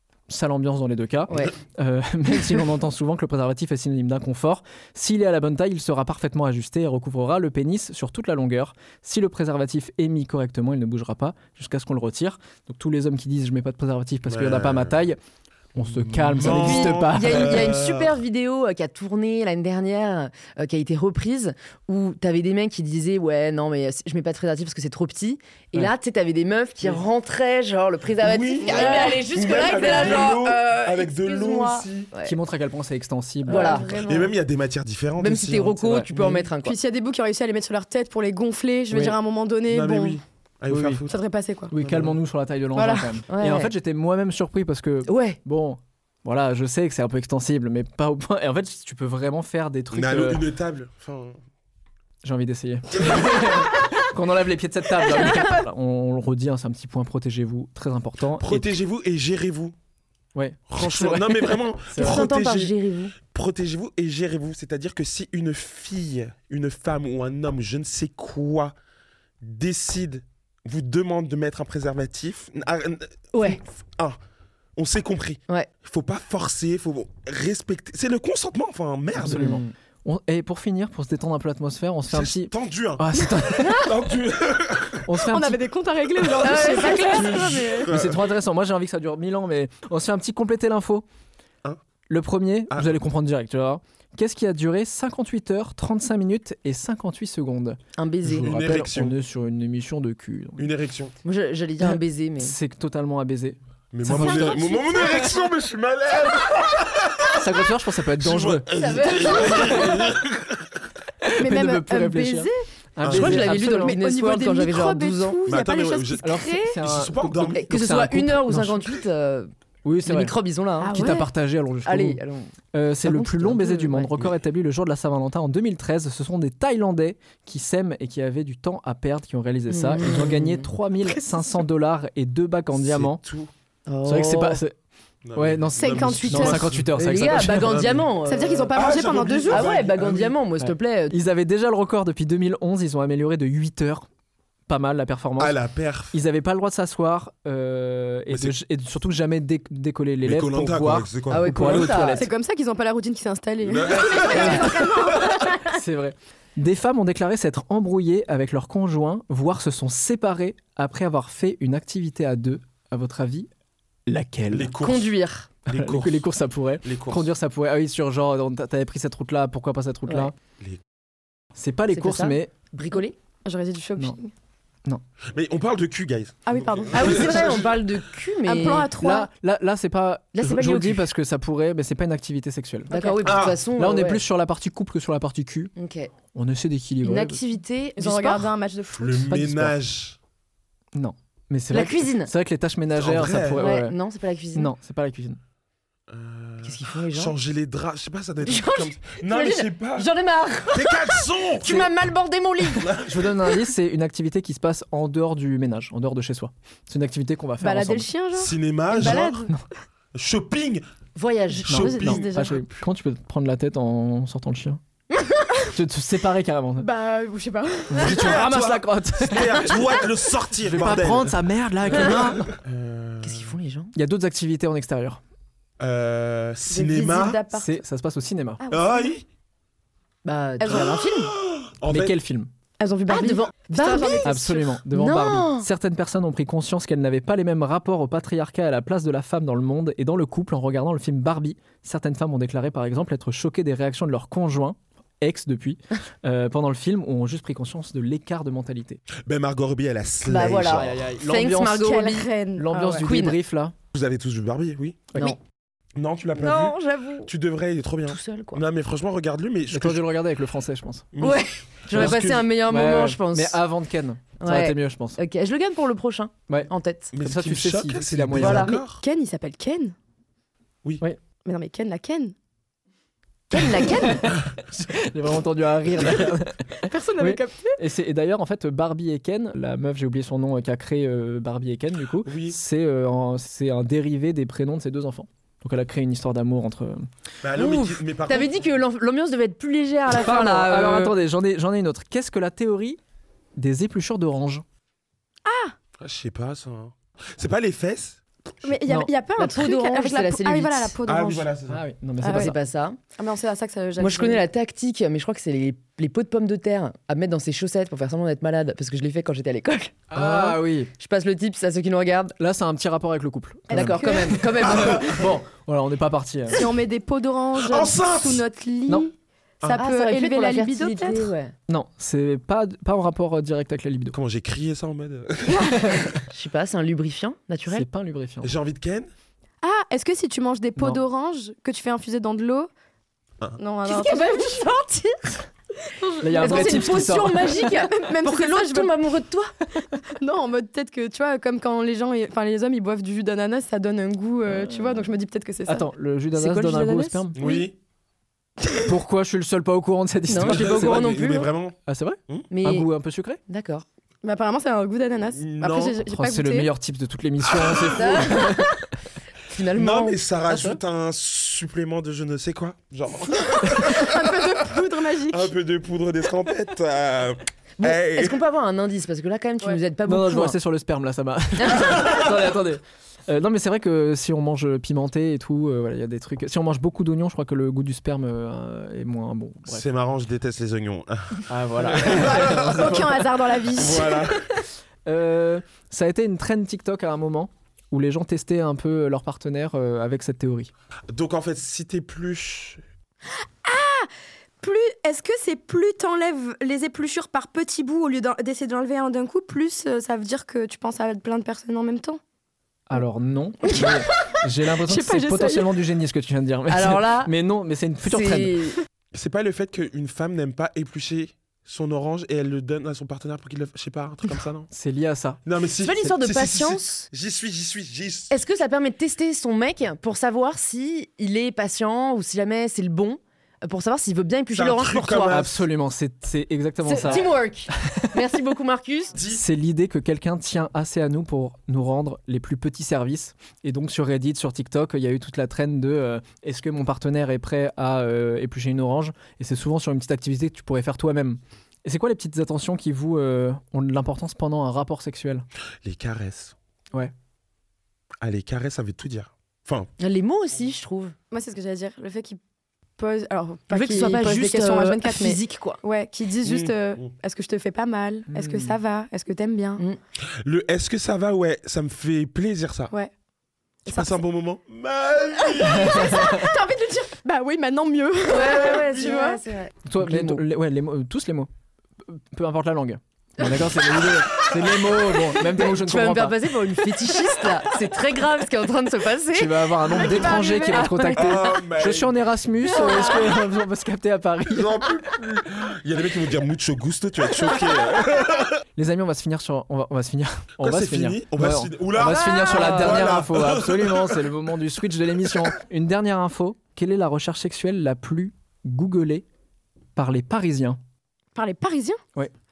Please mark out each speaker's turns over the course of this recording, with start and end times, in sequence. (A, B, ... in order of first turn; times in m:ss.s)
0:00.3-0:15.2 A
0:14.3-0:15.0 B
0:15.7-0:17.6 A
0:15.8-0:18.2 B
0:16.4-0:32.3 C
0:28.2-0:32.1 B
0:28.6-0:29.2 D
0:32.2-0:33.8 A
0:33.4-0:34.2 C
0:33.4-0:34.3 D
0:33.9-0:36.0 B
0:35.2-0:36.8 C
0:35.8-0:36.4 A
0:36.2-0:40.2 D
0:39.7-0:41.2 B
0:40.7-0:41.0 A
0:41.1-0:41.7 D
0:41.7-0:50.4 A
0:41.8-0:42.2 B
0:42.8-0:43.2 D
0:43.3-0:43.7 C
0:45.0-0:45.4 C
0:49.9-0:51.4 B
0:52.2-0:58.7 A
0:58.4-0:59.7 B
1:00.3-1:02.2 A
1:00.7-1:08.7 B
1:01.9-1:03.1 C
1:09.4-1:14.2 B
1:13.3-1:13.6 C
1:14.8-1:19.6 B
1:19.2-1:23.9 A
1:19.2-1:19.6 C
1:22.1-1:25.1 B
1:25.0-1:25.6 A
1:25.3-1:27.9 D
1:26.2-1:28.2 B
1:26.3-1:27.9 C
1:27.9-1:31.0 A
1:32.1-1:40.7 A
1:32.7-1:33.0 B
1:38.0-1:38.5 C
1:38.3-1:39.2 B
1:40.6-1:41.1 B
1:41.2-1:42.5 C
1:41.8-1:45.0 A
1:43.9-1:47.5 B
1:47.3-1:48.7 A
1:48.2-1:50.8 B
1:48.7-1:50.1 C
1:49.4-1:49.9 A
1:51.2-1:54.0 A
1:51.4-1:52.6 D
1:53.0-1:53.5 B
1:53.0-1:55.4 C
1:53.5-1:56.8 D
1:55.4-1:57.7 B
1:56.2-1:58.9 A
1:57.5-1:59.5 C
1:59.8-2:00.3 A
2:00.0-2:01.2 C
2:00.8-2:01.3 D
2:00.9-2:02.2 A
2:01.8-2:02.5 C
2:02.7-2:13.2 A
2:03.0-2:04.1 C
2:09.7-2:10.7 C
2:11.1-2:11.4 D
2:12.7-2:13.5 B
2:13.8-2:14.6 C
2:14.0-2:14.7 A
2:15.2-2:18.0 B
2:15.3-2:18.0 A
2:15.8-2:16.7 D
2:16.9-2:18.8 C
2:18.2-2:19.7 D
2:18.7-2:20.4 B
2:19.5-2:21.2 C
2:20.6-2:24.1 A
2:24.7-2:25.5 A
2:25.4-2:26.2 B
2:26.1-2:32.3 A
2:28.3-2:28.5 B
2:30.2-2:32.1 B
2:31.3-2:32.2 C
2:32.2-2:35.8 D
2:33.6-2:35.5 B
2:34.3-2:34.7 A
2:35.6-2:43.5 A
2:44.0-2:44.7 A
2:44.5-2:45.1 B
2:44.8-2:45.5 C
2:45.7-2:46.3 B
2:45.7-2:50.3 A
2:46.8-2:47.3 B
2:51.5-2:52.5 A
2:51.9-2:53.1 C
2:52.9-2:54.3 D
2:55.3-2:57.8 B
2:56.4-2:57.7 D
2:56.9-2:58.9 C
2:58.4-2:59.3 D
2:59.0-3:02.9 A
3:00.3-3:01.1 C
3:02.9-3:04.2 C
3:02.9-3:03.3 D
3:03.2-3:03.6 B
3:03.8-3:05.7 A
3:05.8-3:06.1 C
3:06.3-3:07.4 A
3:07.0-3:08.5 C
3:08.0-3:09.3 D
3:08.9-3:10.2 B
3:09.3-3:09.8 A
3:10.9-3:13.9 A
3:11.7-3:12.3 C
3:12.9-3:13.6 B
3:13.5-3:14.7 C
3:14.5-3:15.4 A
3:16.1-3:20.1 B
3:16.6-3:17.3 C
3:18.4-3:22.9 C
3:20.7-3:21.9 B
3:22.8-3:23.3 B
3:23.0-3:28.1 A
3:27.6-3:29.6 D
3:28.3-3:29.5 B
3:29.0-3:29.6 A
3:30.1-3:30.8 B
3:31.1-3:31.8 C
3:31.5-3:32.6 D
3:31.7-3:32.5 B
3:31.7-3:34.8 A
3:35.7-3:36.9 A
3:36.8-3:38.5 D
3:37.9-3:39.8 A
3:38.0-3:43.6 B
3:40.6-3:42.5 A
3:41.9-3:42.4 C
3:43.2-3:43.9 C
3:43.9-3:45.2 A
3:45.8-3:47.4 B
3:46.7-3:47.8 D
3:47.5-3:48.6 A
3:48.6-3:49.1 D
3:48.7-3:49.2 B
3:50.2-3:51.3 C
3:50.6-3:51.0 D
3:50.6-3:52.2 B
3:51.9-3:52.5 A
3:52.8-3:54.7 D
3:53.1-3:55.7 C
3:54.2-4:09.0 A
4:09.2-4:11.0 B
4:10.2-4:12.3 C
4:10.6-4:11.9 A
4:11.7-4:13.1 D
4:12.6-4:13.7 A
4:13.0-4:13.4 C
4:13.9-4:15.1 B
4:16.0-4:20.0 B
4:16.4-4:17.3 C
4:18.1-4:18.6 C
4:19.7-4:21.1 A
4:21.1-4:22.4 B
4:21.2-4:23.6 C
4:21.9-4:25.2 A
4:24.4-4:27.1 C
4:26.5-4:28.7 A
4:27.1-4:29.0 B
4:28.4-4:28.8 C
4:28.7-4:29.9 D
4:31.4-4:32.3 D
4:33.5-4:34.3 C
4:33.5-4:33.9 B
4:34.0-4:47.1 A
4:36.8-4:37.8 D
4:42.2-4:42.6 B
4:47.4-4:48.6 B
4:47.5-4:51.1 C
4:50.1-4:53.0 A
4:53.6-4:54.6 A
4:55.4-4:55.8 D
4:56.0-4:58.7 B
4:58.6-5:01.5 D
4:58.8-4:59.1 A
4:59.4-5:00.9 C
5:01.0-5:01.8 B
5:01.7-5:02.6 A
5:02.2-5:02.5 D
5:02.2-5:03.0 C
5:03.2-5:04.4 D
5:04.0-5:12.3 C
5:10.1-5:10.9 A
5:12.4-5:16.6 A
5:13.7-5:14.5 D
5:13.7-5:15.2 C
5:14.6-5:15.3 B
5:16.5-5:21.3 D
5:17.5-5:18.4 B
5:19.6-5:19.8 B
5:19.7-5:21.5 C
5:21.7-5:24.2 A
5:24.1-5:26.1 B
5:25.5-5:25.9 D
5:25.7-5:26.2 A
5:26.3-5:27.8 C
5:27.7-5:28.6 A
5:28.4-5:29.1 B
5:29.6-5:32.7 D
5:33.6-5:34.6 D
5:33.8-5:35.3 C
5:35.8-5:38.9 D
5:36.2-5:37.5 A
5:36.4-5:39.5 C
5:39.9-5:45.8 D
5:44.5-5:45.0 A
5:45.6-5:47.4 A
5:46.3-5:47.2 C
5:47.3-5:47.7 B
5:47.4-5:47.7 D
5:48.8-5:51.1 A
5:50.3-5:51.5 C
5:50.4-5:51.8 B
5:51.8-5:53.4 A
5:52.5-5:52.9 C
5:53.5-5:53.8 C
5:54.2-5:56.7 D
5:55.3-5:56.0 B
5:56.1-5:58.8 A
5:57.5-5:58.2 B
5:57.9-5:58.8 C
5:59.4-6:00.8 C
5:59.7-6:08.4 B
6:03.7-6:05.5 D
6:07.8-6:10.6 C
6:10.0-6:19.8 A
6:11.6-6:12.3 C
6:19.7-6:24.6 B
6:21.5-6:23.2 A
6:22.2-6:24.6 D
6:25.0-6:30.7 A
6:31.1-6:32.8 B
6:33.6-6:42.2 D
6:42.9-6:48.6 A
6:43.6-6:45.7 D
6:46.7-6:47.3 C
6:48.0-6:48.8 C
6:49.1-6:54.7 B
6:54.7-6:55.4 A
6:55.4-6:58.4 B
6:55.8-6:57.1 C
6:58.3-7:05.4 C
7:04.5-7:05.6 B
7:05.3-7:07.3 A
7:06.8-7:09.1 C
7:07.8-7:08.1 A
7:09.1-7:09.4 B
7:09.3-7:25.4 A
7:25.8-7:26.5 B
7:28.2-7:29.9 B
7:30.0-7:31.1 C
7:31.3-7:32.4 D
7:33.0-7:39.8 D
7:33.7-7:35.8 C
7:36.4-7:37.1 B
7:38.3-7:38.8 A
7:40.4-7:42.9 B
7:43.8-7:44.2 D
7:43.9-7:46.4 B
7:45.4-7:49.4 D
7:45.7-7:46.5 A
7:48.2-7:50.4 C
7:49.8-7:51.5 A
7:52.0-7:56.4 A
7:55.4-8:01.4 C
7:59.3-8:04.7 A
8:00.2-8:00.8 D
8:01.2-8:02.1 B
8:02.7-8:03.3 D
8:02.7-8:03.3 C
8:04.5-8:08.6 B
8:08.8-8:19.2 A
8:10.6-8:14.3 B
8:12.2-8:12.9 D
8:20.0-8:20.8 A
8:21.3-8:22.0 D